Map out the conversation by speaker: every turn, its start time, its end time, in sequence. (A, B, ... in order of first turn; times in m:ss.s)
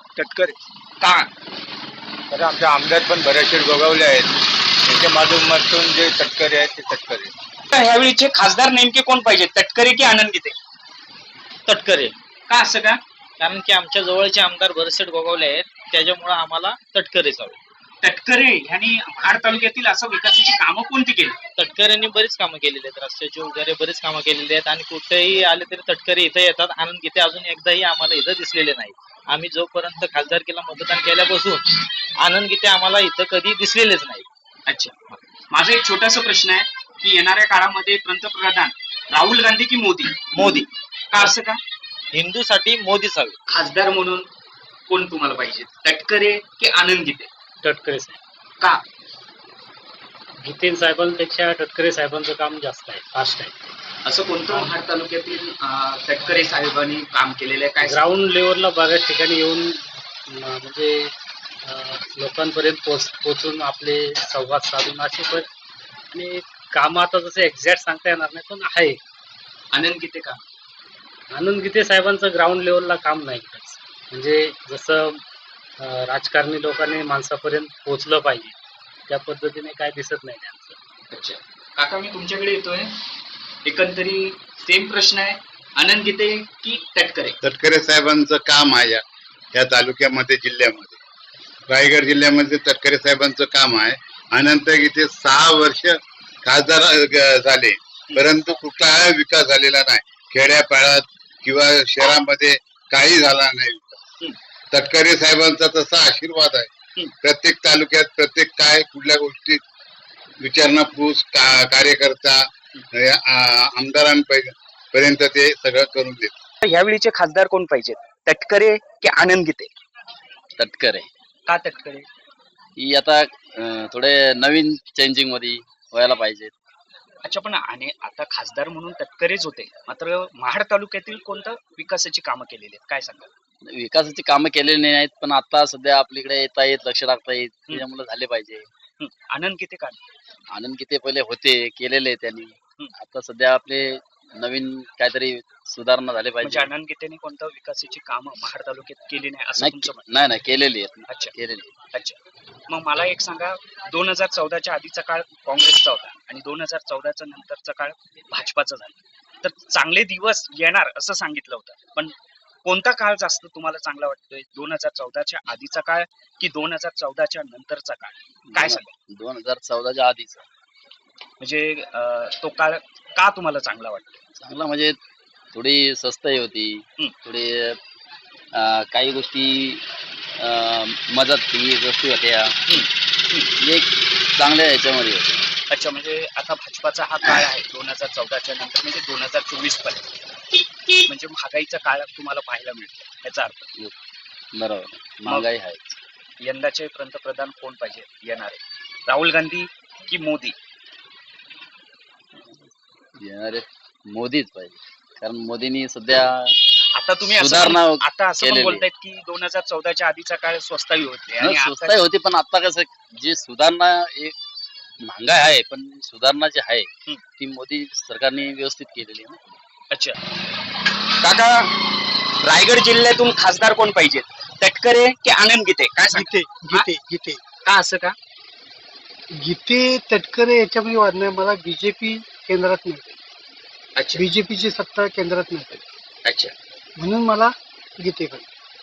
0:00.2-0:00.6 A
0:01.0-0:01.3 B
0:02.3-0:07.3 A
0:07.7-0:10.6 B
0:11.7-0:12.1 C
0:12.5-0:13.0 B
0:13.4-0:17.5 C
0:18.0-0:21.4 B
0:21.6-0:31.6 C
0:32.2-0:34.2 C
0:34.7-0:41.6 B
0:42.1-0:43.3 C
0:43.5-0:44.3 B
0:44.9-0:47.3 B
0:47.6-0:48.2 D
0:50.4-0:53.5 D
0:54.0-0:57.9 B
0:57.8-1:01.1 D
1:01.7-1:05.5 D
1:06.1-1:09.0 D
1:09.7-1:10.4 B
1:11.3-1:15.2 D
1:15.8-1:18.6 D
1:19.1-1:20.8 D
1:21.1-1:23.0 B
1:23.6-1:27.4 B
1:27.4-1:29.0 E
1:29.5-1:31.0 E
1:31.7-1:44.0 E
1:44.7-1:46.7 E
1:47.2-1:49.6 E
1:50.4-1:52.4 E
1:53.0-1:56.3 E
1:56.6-1:59.7 B
2:00.6-2:01.1 F
2:01.5-2:02.1 B
2:02.8-2:06.5 F
2:07.2-2:13.3 B
2:13.6-2:18.7 F
2:19.0-2:20.0 B
2:20.5-2:26.7 F
2:26.7-2:30.0 B
2:29.6-2:31.7 F
2:32.7-2:48.2 B
2:48.5-2:50.4 F
2:51.4-2:54.1 B
2:54.4-2:55.0 F
2:55.5-2:57.8 F
2:58.5-2:59.8 F
3:00.4-3:02.6 F
3:02.7-3:03.5 B
3:03.6-3:05.5 F
3:05.7-3:10.0 B
3:11.0-3:13.6 B
3:14.6-3:16.0 F
3:16.4-3:20.6 B
3:22.4-3:22.7 F
3:23.2-3:26.6 F
3:27.0-3:31.9 B
3:27.2-3:28.8 F
3:31.4-3:34.4 F
3:35.0-3:39.4 F
3:39.9-3:40.2 B
3:41.2-3:41.7 B
3:42.4-3:46.8 B
3:46.1-3:47.4 G
3:47.6-3:48.2 B
3:49.3-3:53.2 G
3:54.0-3:54.2 B
3:54.2-3:55.8 G
3:56.2-3:56.5 B
3:57.0-3:58.5 G